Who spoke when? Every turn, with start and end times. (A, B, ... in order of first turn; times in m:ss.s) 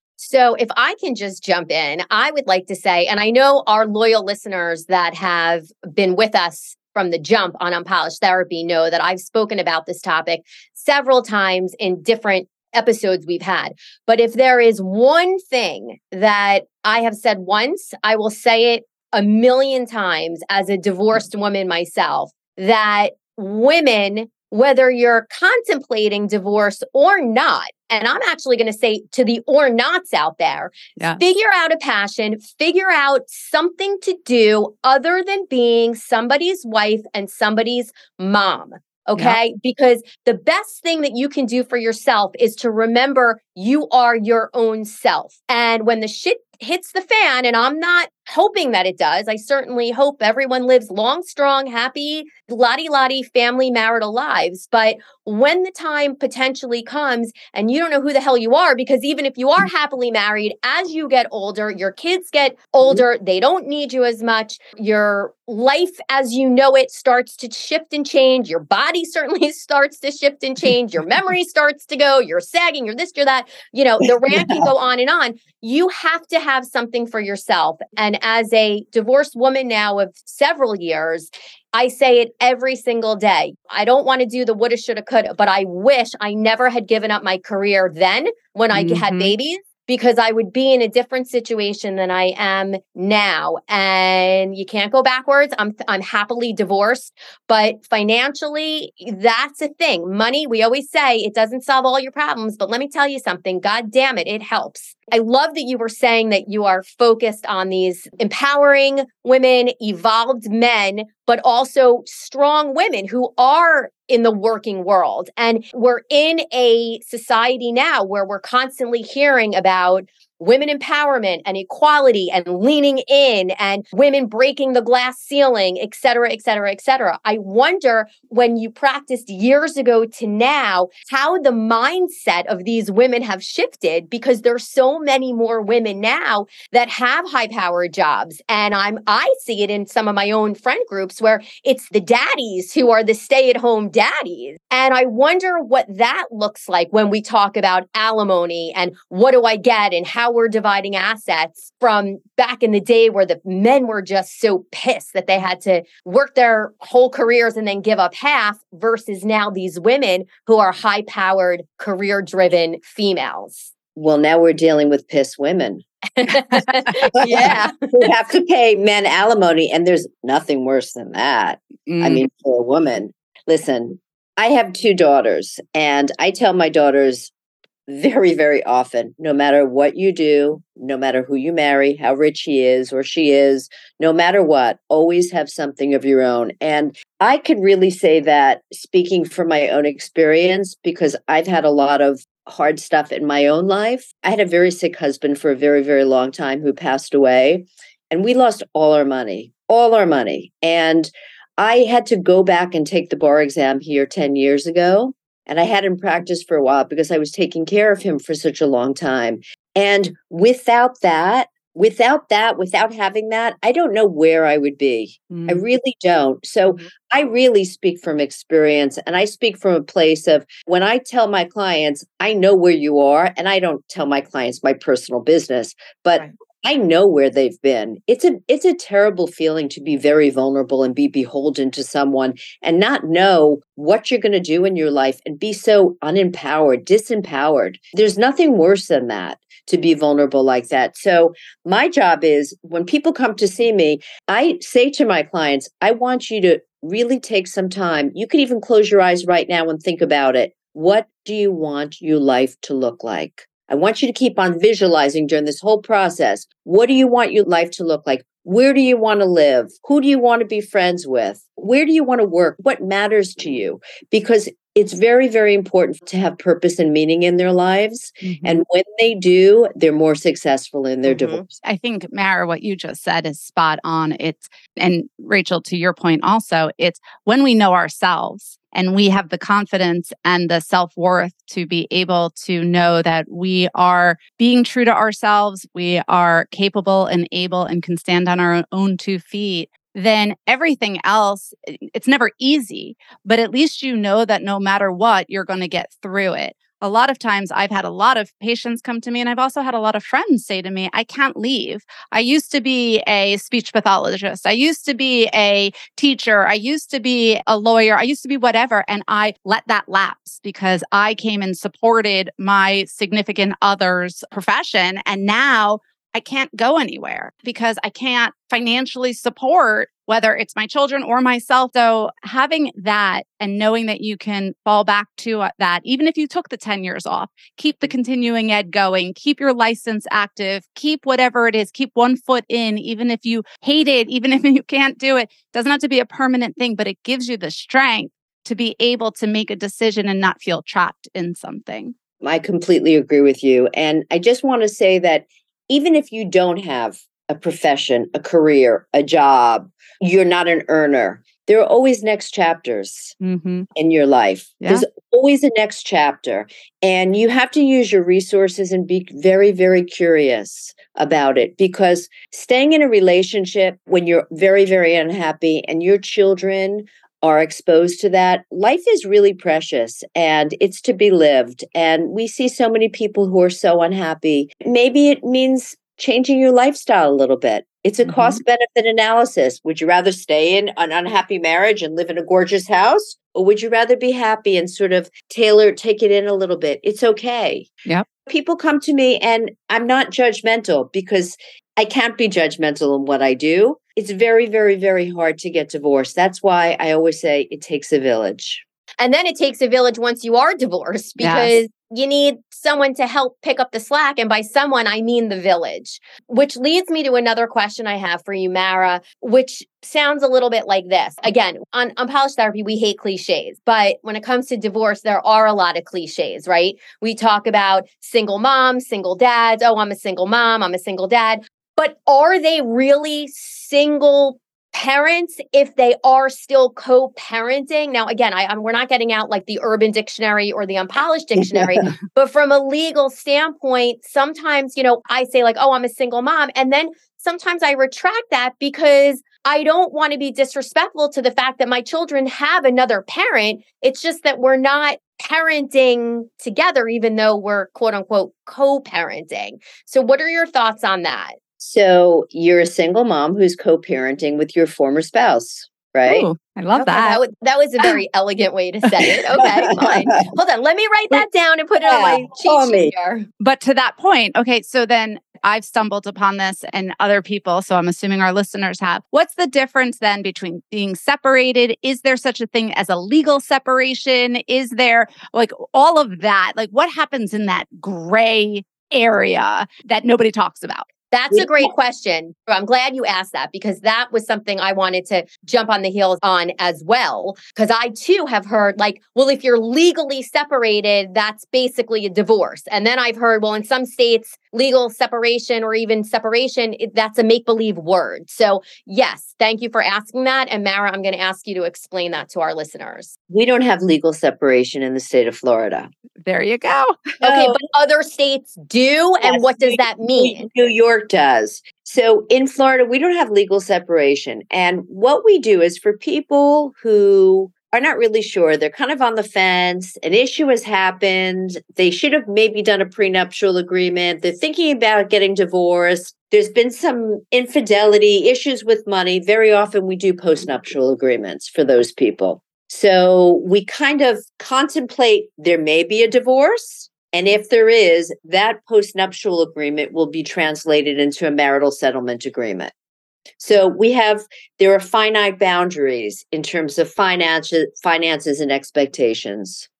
0:00.2-2:43.7 A
0:39.1-0:39.4 B
1:14.3-1:14.7 C
1:28.7-1:29.3 B
2:44.0-2:45.8 C
2:46.2-2:47.7 A
2:47.2-2:57.3 C
2:51.8-2:52.2 B
2:57.9-4:31.5 C
3:35.3-3:35.6 B
4:28.2-4:28.6 B
4:31.0-4:31.4 A
4:31.6-5:41.9 B
5:42.2-5:53.2 C
5:53.2-5:53.7 B
5:53.7-6:27.7 C
5:54.6-5:54.9 B
6:18.0-6:18.4 B
6:28.2-6:38.6 C
6:39.0-7:31.4 A
6:41.2-6:41.6 B
7:11.4-7:11.8 C
7:31.6-7:36.3 C
7:36.0-7:37.2 B
7:36.8-7:43.3 A
7:39.8-7:40.1 C
7:41.8-7:42.9 C
7:43.4-8:00.9 B
8:01.1-8:23.1 A
8:01.3-8:01.7 C
8:23.3-8:25.9 C
8:26.2-8:27.1 B
8:27.2-8:27.6 C
8:27.2-8:30.5 A
8:29.2-9:02.7 C
9:03.4-9:09.7 C